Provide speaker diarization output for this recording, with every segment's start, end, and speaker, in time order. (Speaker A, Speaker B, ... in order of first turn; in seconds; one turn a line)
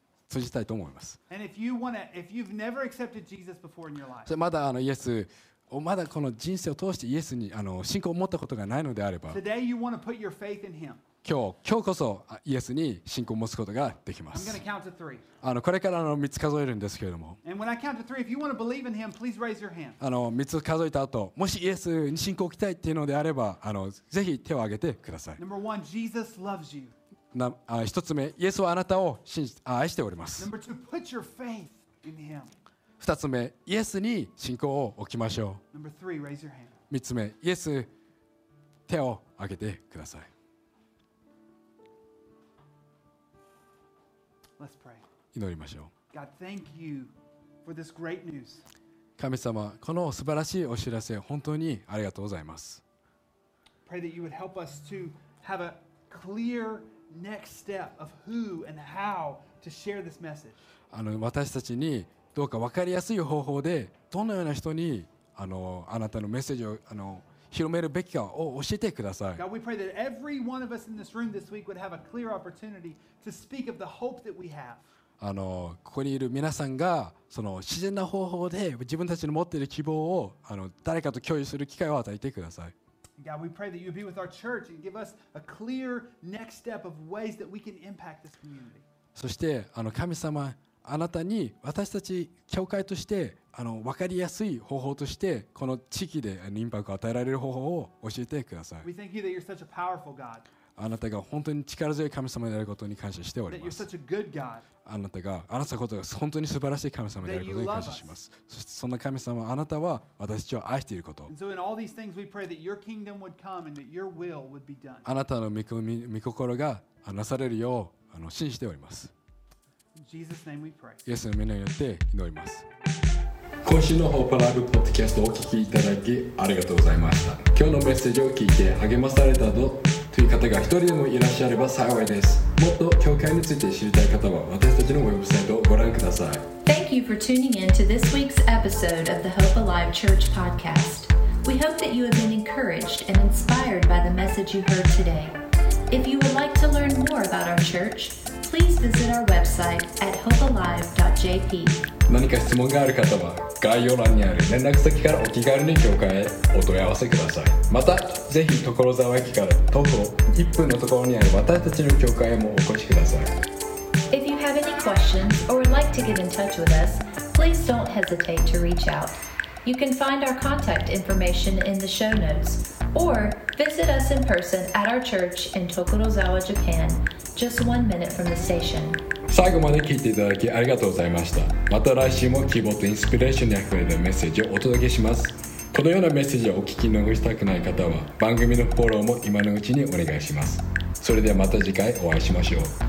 Speaker A: 0.3-1.2
Speaker B: 1.3-4.3
Speaker A: 4.2-9.4
Speaker B: 9.3-11.0
Speaker A: 11.2-14.6
Speaker B: 14.3-15.2
Speaker A: 15.4-17.4
Speaker B: 17.4-20.0
Speaker A: 20.0-25.4
Speaker B: 25.4-26.9
Speaker A: 27.3-30.5
Speaker B: 30.4-32.5
Speaker A: 33.0-35.6
Speaker B: 35.7-36.8
Speaker A: 36.9-37.9
Speaker A: 38.9-40.3
Speaker B: 44.6-45.0
Speaker A: 45.3-45.9
Speaker B: 46.1-47.1
Speaker B: 47.6-48.6
Speaker A: 49.2-52.8
Speaker B: 53.9-60.6
Speaker A: 60.9-69.4
Speaker B: 69.4-74.8
Speaker A: 75.2-82.7
Speaker B: 83.2-88.8
Speaker A: 89.1-98.9
Speaker B: 98.8-100.4
Speaker A: 100.8-103.9
Speaker B: 103.5-104.7
Speaker A: 104.8-111.3
Speaker B: 107.2-108.1
Speaker B: 111.3-115.1
Speaker A: 115.0-119.1
Speaker B: 120.0-121.1
Speaker A: 121.0-122.7
Speaker A: 123.6-136.5
Speaker C: 136.7-145.4
Speaker C: 145.9-151.9
Speaker A: 152.1-163.4
Speaker C: 164.1-179.0
Speaker A: 179.3-192.7